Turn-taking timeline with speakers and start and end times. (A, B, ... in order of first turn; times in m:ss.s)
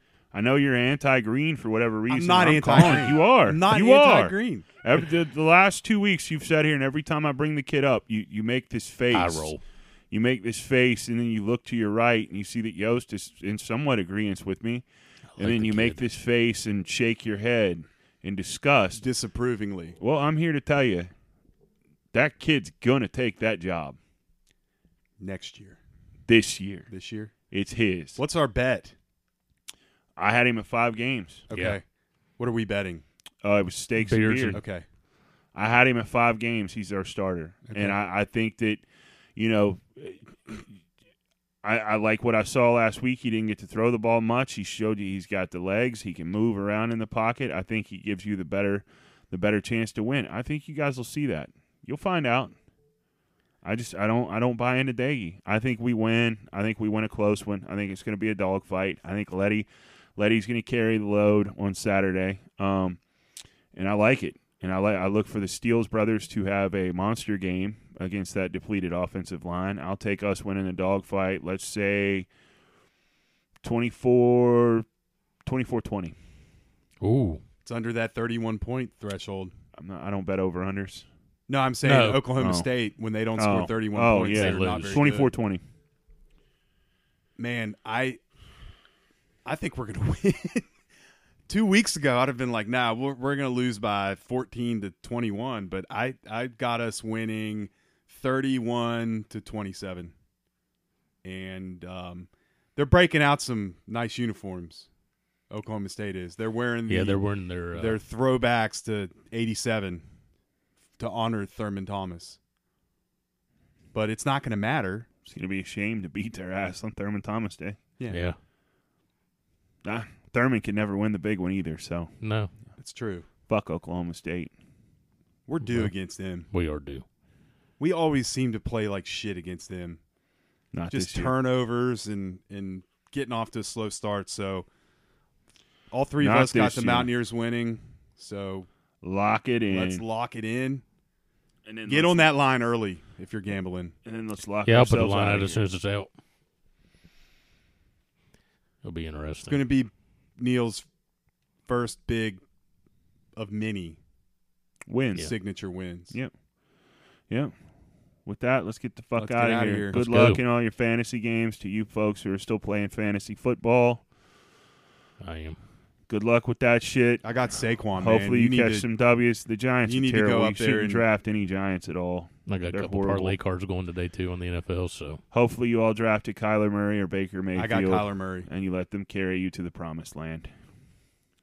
0:00.3-0:09.6 A
0:02.1-0:04.6 B
0:09.1-0:09.6 C
0:10.1-0:14.8 A
0:15.3-0:16.0 C
0:15.4-0:19.0 A
0:19.0-0:20.0 B
0:20.0-0:21.1 A
0:22.1-0:24.0 A
0:25.2-0:25.8 B
0:26.3-0:26.9 A
0:26.9-0:27.3 B
0:27.5-0:28.2 A
0:28.2-0:28.9 B
0:30.2-0:31.5 A
0:31.5-0:31.8 B
0:31.5-0:31.8 C
0:32.4-0:33.0 B
0:33.4-0:34.6 A
0:34.0-0:34.6 C
0:34.5-0:34.8 B
0:35.5-0:38.8 A
0:37.7-0:38.0 B
0:39.4-0:40.7 A
0:41.6-0:52.5 A
0:53.6-1:03.0 A
1:03.7-1:12.3 A
1:13.6-1:14.8 A
1:15.4-1:16.2 A
1:17.0-1:17.4 C
1:17.6-1:19.5 B
1:19.8-1:21.1 A
1:21.5-1:25.3 B
1:21.8-1:22.2 C
1:22.4-1:22.7 A
1:23.4-1:25.6 A
1:24.3-1:25.1 C
1:27.4-1:28.2 B
1:29.4-1:30.7 B
1:31.5-1:40.1 B
1:41.2-1:44.9 B
1:45.5-1:47.2 B
1:46.9-1:48.0 C
1:47.7-1:50.0 B
1:51.0-1:52.4 B
1:53.9-1:55.1 B
1:55.2-1:57.8 A
1:58.0-1:58.2 B
1:58.1-1:58.4 C
1:59.8-2:02.1 A
2:02.2-2:02.5 C
2:02.8-2:03.3 B
2:03.5-2:04.5 A
2:05.5-2:06.5 B
2:05.6-2:05.9 C
2:06.5-2:07.0 C
2:07.8-2:10.0 B
2:10.7-2:11.3 A
2:10.9-2:14.7 B
2:15.9-2:18.7 B
2:16.2-2:17.1 A
2:19.0-2:20.0 A
2:19.7-2:20.8 B
2:21.6-2:22.3 A
2:21.9-2:24.0 B
2:24.0-2:25.6 A
2:24.6-2:26.1 C
2:28.8-2:29.6 C
2:29.4-2:30.9 B
2:31.6-2:32.4 B
2:33.4-2:34.0 B
2:34.9-2:35.3 A
2:35.2-2:36.2 B
2:38.2-2:44.0 A
2:39.2-2:40.0 B
2:39.9-2:40.4 C
2:45.2-2:45.6 C
2:46.1-2:47.3 A
2:47.2-2:48.9 B
2:48.0-2:53.4 A
2:49.8-2:51.0 B
2:52.5-2:55.2 C
2:55.3-3:00.5 A
2:57.5-2:58.5 B